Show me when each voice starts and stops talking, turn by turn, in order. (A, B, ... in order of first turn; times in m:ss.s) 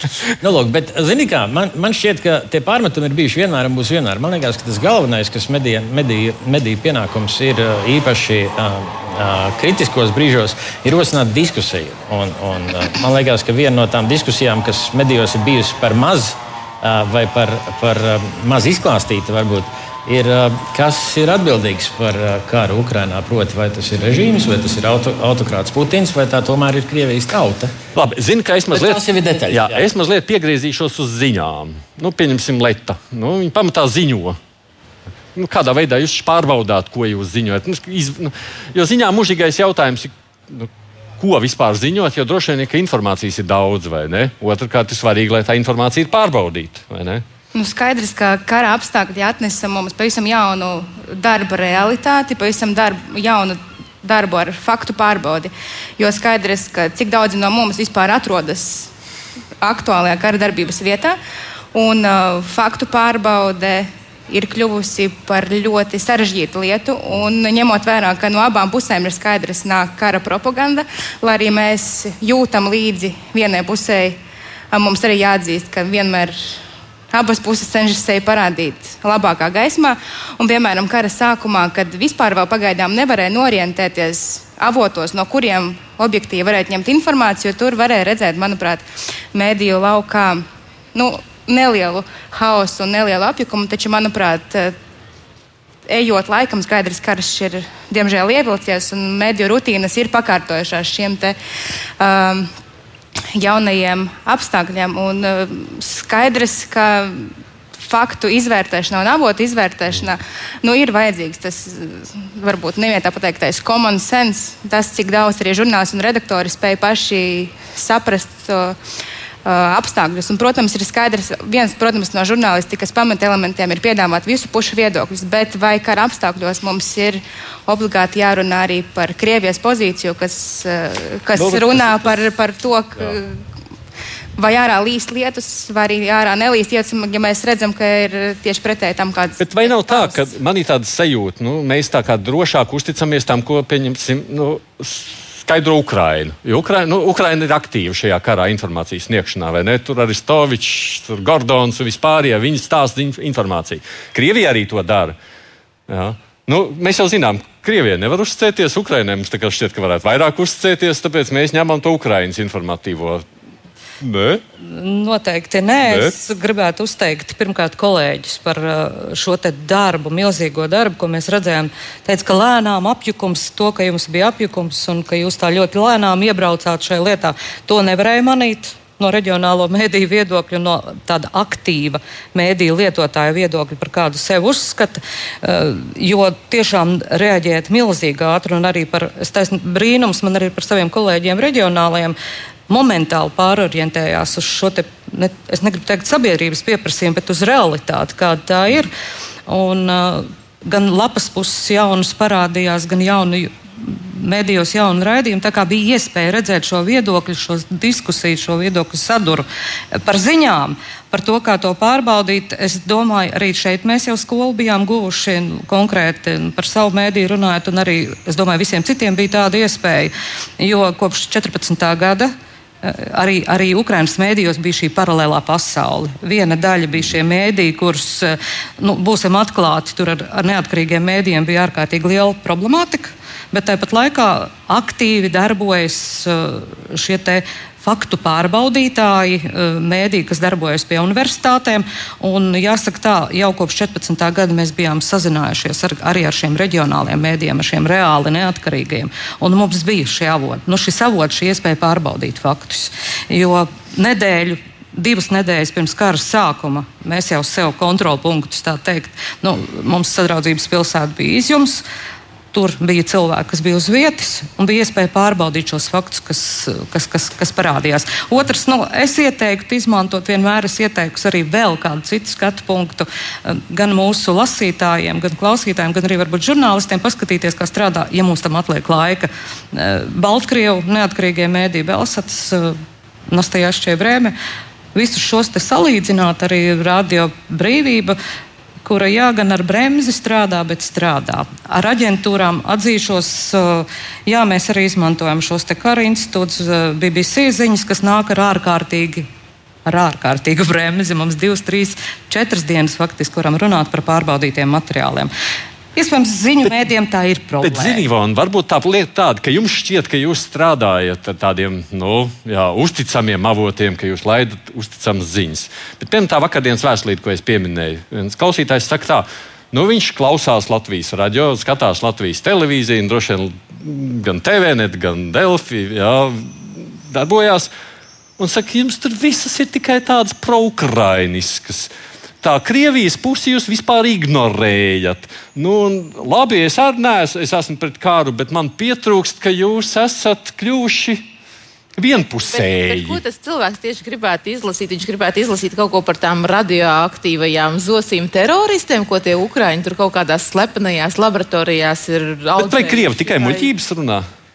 0:00.3-0:27.7 A
0:28.0-0:34.4 B
0:28.7-0:29.9 A
0:35.4-0:47.2 B
0:47.5-0:58.9 C
0:59.6-1:01.2 C
1:01.7-1:14.2 C
1:14.7-1:16.6 C
1:17.1-1:34.8 C
1:35.9-1:41.4 C
1:42.0-1:42.5 C
1:43.4-1:58.8 C
1:59.4-2:13.4 C
2:11.4-2:12.2 B
2:14.4-2:20.2 C
2:19.4-2:35.2 B
2:35.9-2:43.2 B
2:44.0-2:44.4 B
2:44.6-3:12.2 D
2:45.9-2:46.1 B
3:12.7-3:18.9 D
3:19.5-4:21.8 D
4:22.5-4:42.8 D
4:43.3-4:44.4 D
4:44.9-4:48.2 D
4:48.8-4:59.3 D
4:59.9-5:05.3 D
5:06.0-5:08.0 D
5:07.6-5:27.7 B
5:28.4-5:31.9 B
5:32.4-5:41.3 B
5:42.0-5:43.2 B
5:42.4-5:53.7 E
5:52.6-5:54.2 B